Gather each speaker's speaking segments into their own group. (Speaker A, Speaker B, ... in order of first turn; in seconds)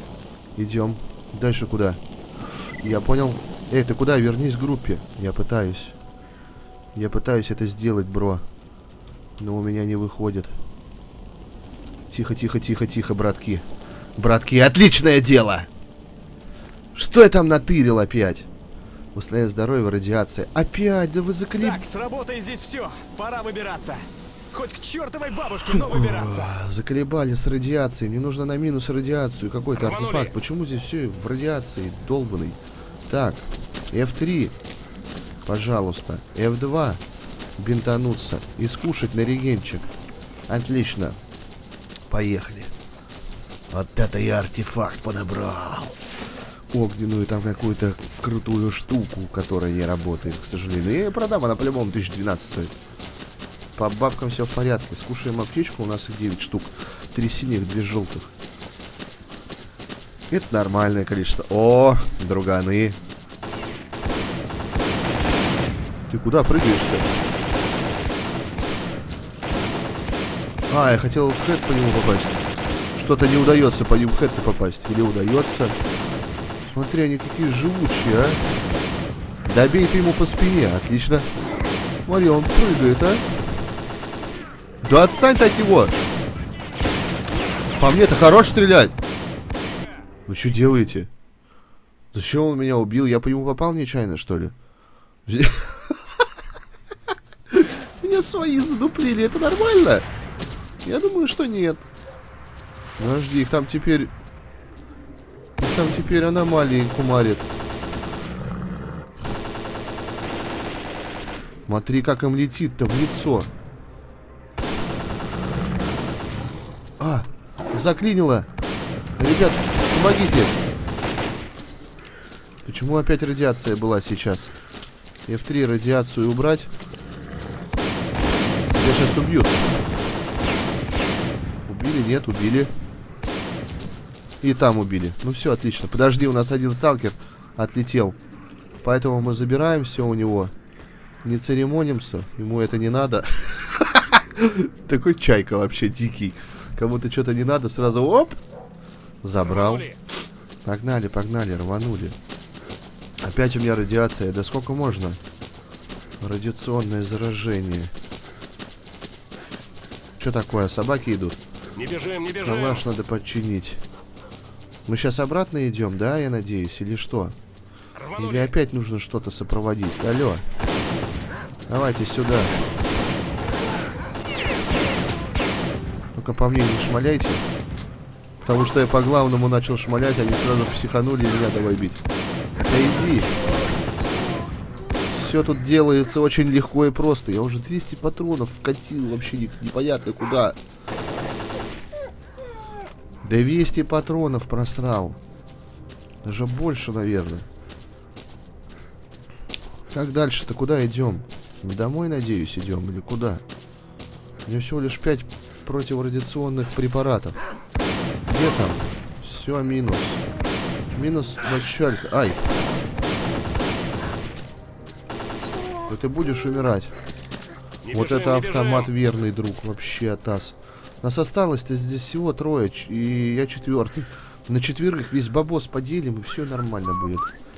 Speaker A: 0.6-2.0, 2.5-6.0, 7.0-8.4, 9.4-10.5, 12.1-13.7, 14.2-15.7, 16.9-18.5, 19.1-21.8, 25.7-32.6, 33.1-34.5, 35.4-37.0, 37.6-39.9, 40.5-41.2, 42.1-42.7, 43.7-46.0, 46.7-52.8, 53.8-58.3, 60.3-63.0, 66.1-67.1, 70.7-72.4, 73.0-75.8, 76.7-78.4, 79.5-81.3, 82.1-83.3, 84.8-86.0, 87.7-89.0, 90.3-91.1, 92.1-94.5, 95.3-96.0, 97.5-100.1, 100.8-101.8, 103.0-104.1, 105.6-107.5, 111.7-113.5, 117.0-118.5, 119.2-120.6, 122.7-124.5, 125.3-126.7, 128.7-129.6, 131.7-132.7, 134.4-138.2, 138.8-140.5, 141.2-148.4, 149.2-149.9, 150.6-152.2, 153.2-155.2, 156.2-157.9, 160.2-161.4, 162.4-163.8, 164.9-167.4, 168.2-170.4, 171.7-172.5, 176.1-177.4, 178.4-182.0, 182.6-183.3, 185.1-190.6, 193.2-195.2, 196.2-197.5, 199.9-203.4, 204.5-207.4, 208.3-210.2, 210.9-212.4, 215.9-216.9, 217.9-227.3
Speaker B: 21.6-26.5
Speaker C: 29.8-30.4, 149.4-150.0, 161.8-162.8, 167.9-168.5, 217.8-218.9